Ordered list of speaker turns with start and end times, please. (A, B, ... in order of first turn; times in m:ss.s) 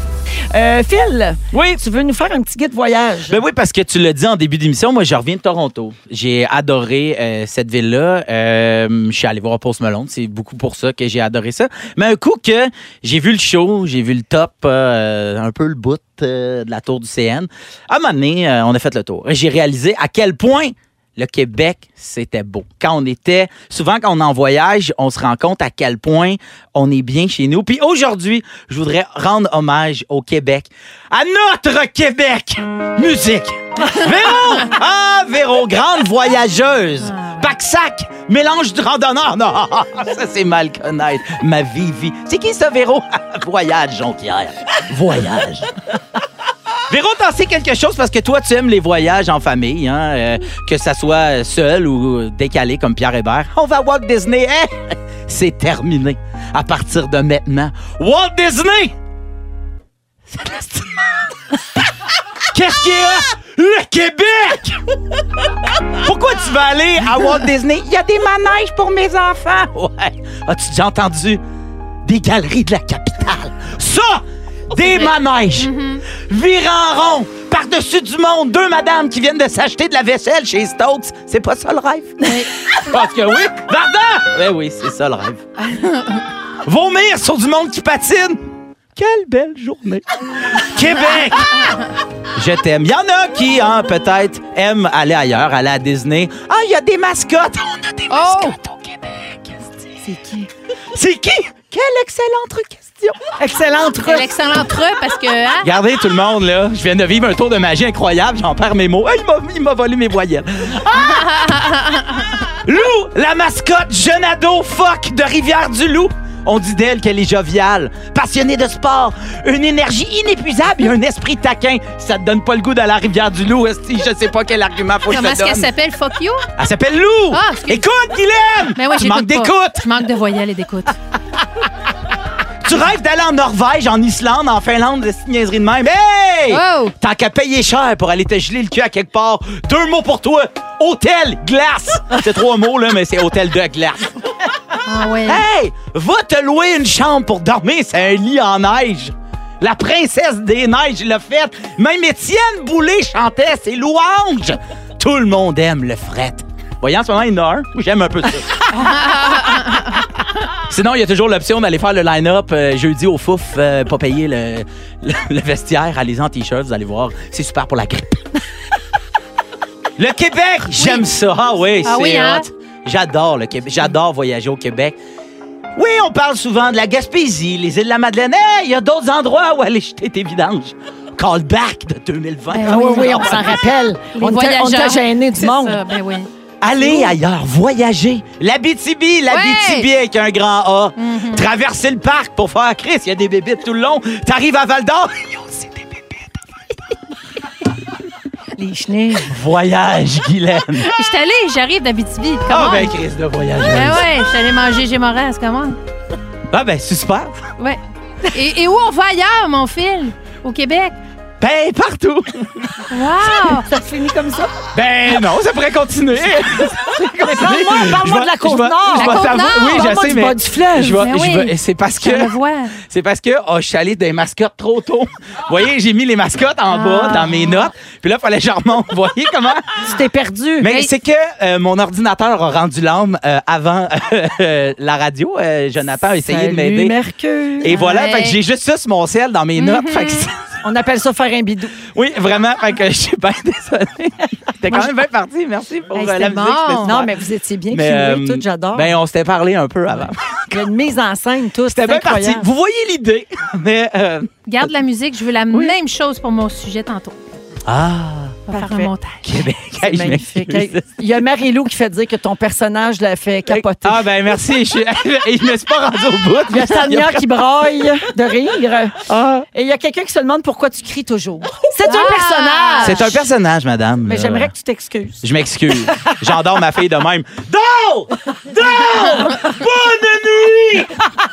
0:00.5-0:03.4 A
0:01.5-0:01.8 B
0:03.3-0:45.7 B
0:34.0-0:34.6 C
0:37.0-0:37.5 C
0:46.9-0:59.0 B
1:00.3-1:01.3 B
1:02.5-1:04.8 B
1:05.9-1:11.4 B
1:12.0-1:25.4 B
1:15.6-1:16.0 C
1:22.2-1:22.5 C
1:25.6-1:26.2 C
1:26.6-1:28.4 B
1:29.0-1:31.8 B
1:32.4-1:39.7 B
1:38.1-1:38.6 C
1:40.1-1:40.5 A
1:40.9-1:43.3 B
1:43.4-1:44.3 A
1:44.0-1:45.7 C
1:45.6-1:51.5 B
1:51.0-1:52.3 C
1:52.5-2:05.7 B
2:05.1-2:06.5 C
2:06.6-2:09.8 B
2:07.3-2:07.8 C
2:08.8-2:11.0 C
2:12.6-2:24.2 B
2:16.5-2:16.9 C
2:24.9-2:25.4 C
2:25.2-2:38.6 B
2:38.7-2:40.1 C
2:40.7-2:48.4 B
2:50.0-2:55.0 B
2:50.8-2:51.0 C
2:51.8-2:52.5 C
2:55.8-3:03.6 B
3:02.5-3:03.5 C
3:02.6-3:05.8 A
3:04.1-3:06.3 C
3:06.6-3:16.0 B
3:06.8-3:07.1 C
3:09.3-3:09.9 C
3:11.0-3:11.4 C
3:18.6-3:19.3 A
3:19.3-3:20.9 B
3:20.8-3:23.0 C
3:22.5-3:24.0 B
3:23.6-3:25.8 C
3:26.5-3:27.4 B
3:28.3-3:31.0 C
3:31.4-3:32.8 B
3:32.9-3:33.7 C
3:33.6-3:34.5 A
3:34.7-3:49.9 B
3:37.2-3:41.0 A
3:39.0-3:39.9 C
3:41.0-3:42.8 C
3:46.7-3:47.7 C
3:49.8-3:50.7 A
3:50.6-3:57.0 B
3:56.2-3:57.8 A
3:57.6-4:00.6 B
3:57.7-3:58.4 C
3:59.6-4:00.3 C
4:00.6-4:01.8 A
4:01.9-4:07.0 B
4:05.9-4:07.0 C
4:06.8-4:08.9 A
4:07.7-4:10.4 B
4:10.5-4:12.5 A
4:11.7-4:14.7 B
4:14.5-4:17.2 C
4:17.7-4:18.4 B
4:18.5-4:19.3 C
4:19.2-4:21.0 B
4:19.8-4:24.0 A
4:23.5-4:27.8 B
4:26.5-4:33.2 A
4:31.8-4:33.0 C
4:32.8-4:34.5 B
4:34.0-4:35.2 A
4:35.2-4:41.0 B